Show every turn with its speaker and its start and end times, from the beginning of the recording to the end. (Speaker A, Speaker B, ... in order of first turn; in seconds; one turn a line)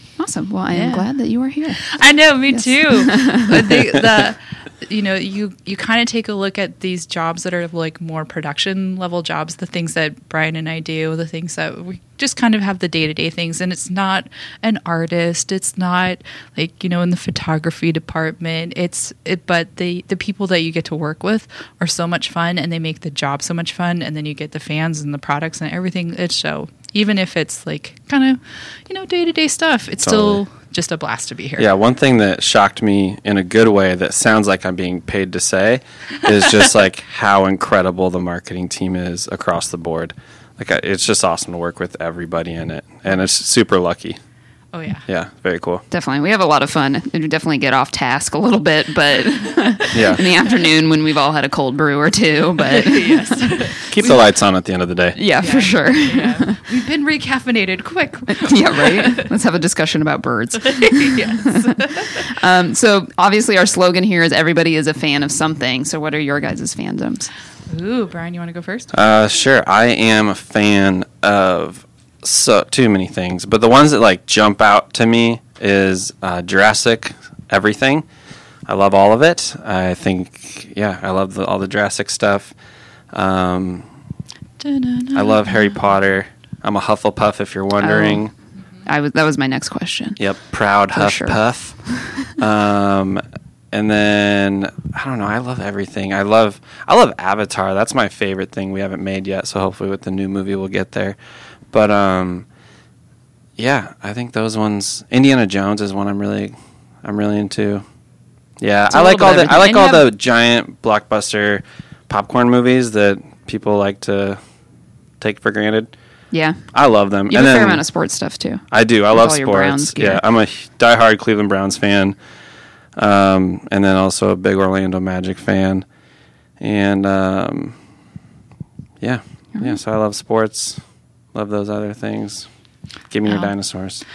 Speaker A: 0.2-2.0
Speaker B: 0.7-1.1
Speaker B: 1.8-31.7
Speaker A: 2.5-3.8
Speaker C: 30.0-30.4
Speaker C: 31.6-44.2
Speaker B: 44.7-45.0
Speaker C: 45.1-45.8
Speaker A: 45.9-54.1
Speaker C: 49.9-50.3
Speaker B: 52.6-53.8
Speaker C: 53.9-55.2
Speaker A: 55.2-56.6
Speaker B: 55.4-59.3
Speaker A: 58.3-67.3
Speaker B: 60.6-62.3
Speaker B: 67.7-68.9
Speaker C: 68.9-78.0
Speaker C: 78.7-82.5
Speaker C: 83.1-83.9
Speaker B: 84.6-85.8
Speaker C: 85.1-88.3
Speaker A: 87.8-88.2
Speaker A: 88.9-90.2
Speaker C: 90.2-91.8
Speaker A: 90.9-91.4
Speaker C: 92.3-101.2
Speaker C: 101.7-102.5
Speaker C: 103.6-107.8
Speaker C: 108.6-114.4
Speaker A: 108.9-110.1
Speaker C: 115.2-115.9
Speaker A: 116.3-116.6
Speaker C: 116.7-117.8
Speaker A: 117.3-120.2
Speaker C: 118.7-122.2
Speaker C: 123.0-125.8
Speaker C: 126.6-127.8
Speaker C: 129.0-130.8
Speaker C: 131.3-132.5
Speaker C: 133.1-134.0
Speaker B: 133.3-133.5